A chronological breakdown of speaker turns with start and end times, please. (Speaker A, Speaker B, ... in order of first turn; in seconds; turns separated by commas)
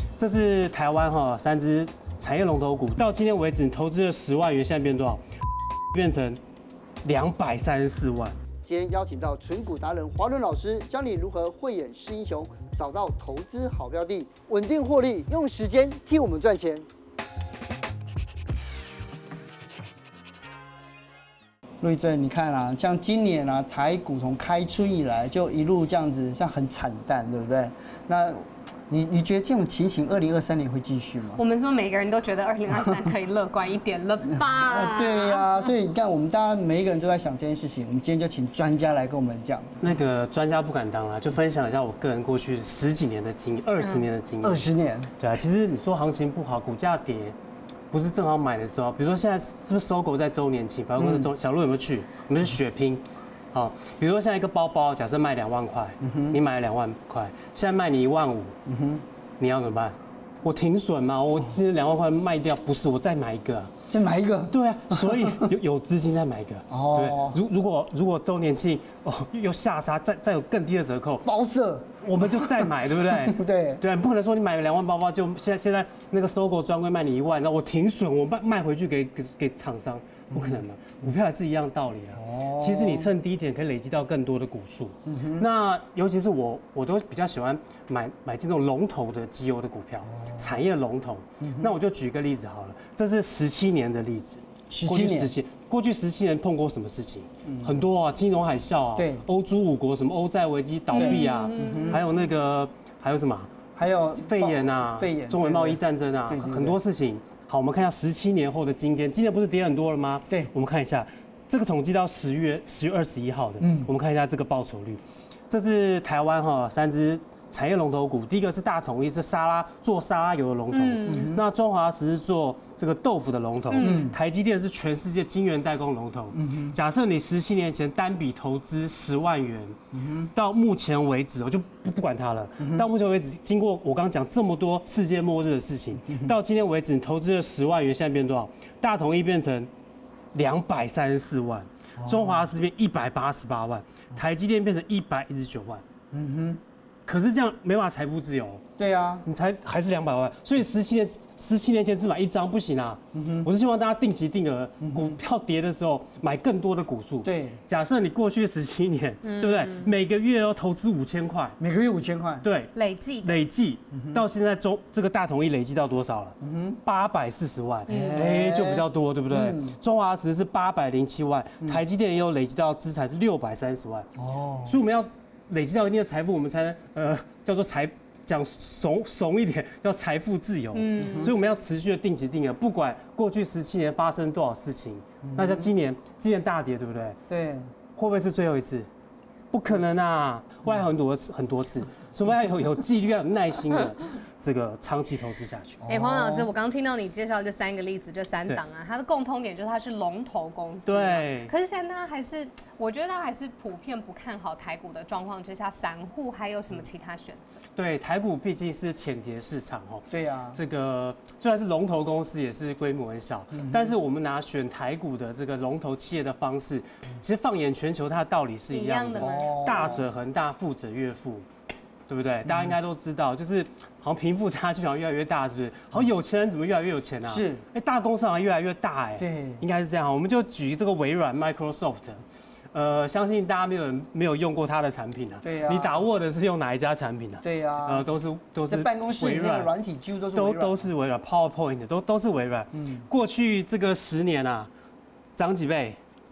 Speaker A: 0.2-5.2, Speaker A: 5.9-6.4, Speaker A: 7.0-8.4, Speaker B: 8.6-16.9, Speaker B: 21.8-31.4, Speaker C: 31.4-35.6, Speaker B: 34.5-39.9, Speaker A: 39.8-47.4, Speaker B: 44.4-45.1, Speaker A: 47.9-58.5, Speaker B: 51.0-51.3, Speaker B: 56.0-56.4, Speaker B: 58.6-59.0, Speaker A: 59.4-63.7, Speaker B: 63.9-65.5, Speaker A: 64.5-71.3, Speaker B: 66.7-67.4, Speaker B: 71.2-73.8, Speaker A: 72.0-129.8, Speaker B: 80.3-80.6, Speaker B: 82.2-83.1, Speaker B: 85.0-85.5, Speaker B: 90.0-90.5, Speaker B: 91.4-91.7, Speaker B: 94.7-95.3, Speaker B: 97.4-97.8, Speaker B: 99.0-99.3, Speaker B: 101.0-102.0, Speaker C: 101.1-102.0, Speaker B: 103.7-106.8, Speaker B: 113.6-113.9, Speaker C: 120.8-121.2, Speaker B: 121.0-121.4, Speaker B: 123.8-124.2, Speaker B: 126.3-126.8, Speaker B: 129.9-130.3, Speaker A: 130.3-139.7, Speaker B: 132.6-132.8, Speaker A: 140.3-145.8, Speaker B: 142.0-142.4, Speaker B: 146.1-146.6, Speaker A: 147.1-148.6, Speaker B: 148.8-149.2, Speaker A: 149.2-161.6, Speaker B: 153.1-153.5, Speaker B: 154.8-155.2, Speaker B: 157.2-157.6, Speaker C: 159.2-159.9, Speaker B: 161.6-162.4, Speaker A: 162.4-174.1, Speaker C: 162.8-163.4, Speaker B: 163.9-164.2, Speaker B: 166.4-166.8, Speaker B: 167.9-169.8, Speaker B: 174.2-174.8, Speaker A: 174.7-187.2, Speaker C: 180.7-181.2, Speaker B: 180.9-181.3, Speaker B: 185.2-185.7, Speaker B: 187.3-187.7, Speaker A: 187.9-188.9, Speaker A: 189.5-195.8, Speaker B: 195.8-196.5, Speaker C: 195.9-207.4, Speaker A: 200.8-201.5, Speaker A: 207.7-221.4, Speaker B: 210.1-210.6, Speaker B: 213.5-213.9, Speaker C: 218.7-219.9, Speaker B: 219.2-220.1, Speaker A: 222.1-239.7, Speaker B: 227.2-227.6, Speaker B: 229.2-229.6, Speaker B: 235.4-236.0, Speaker B: 237.4-238.0, Speaker B: 238.7-240.8, Speaker A: 240.3-244.7, Speaker B: 242.7-243.1, Speaker A: 245.3-246.0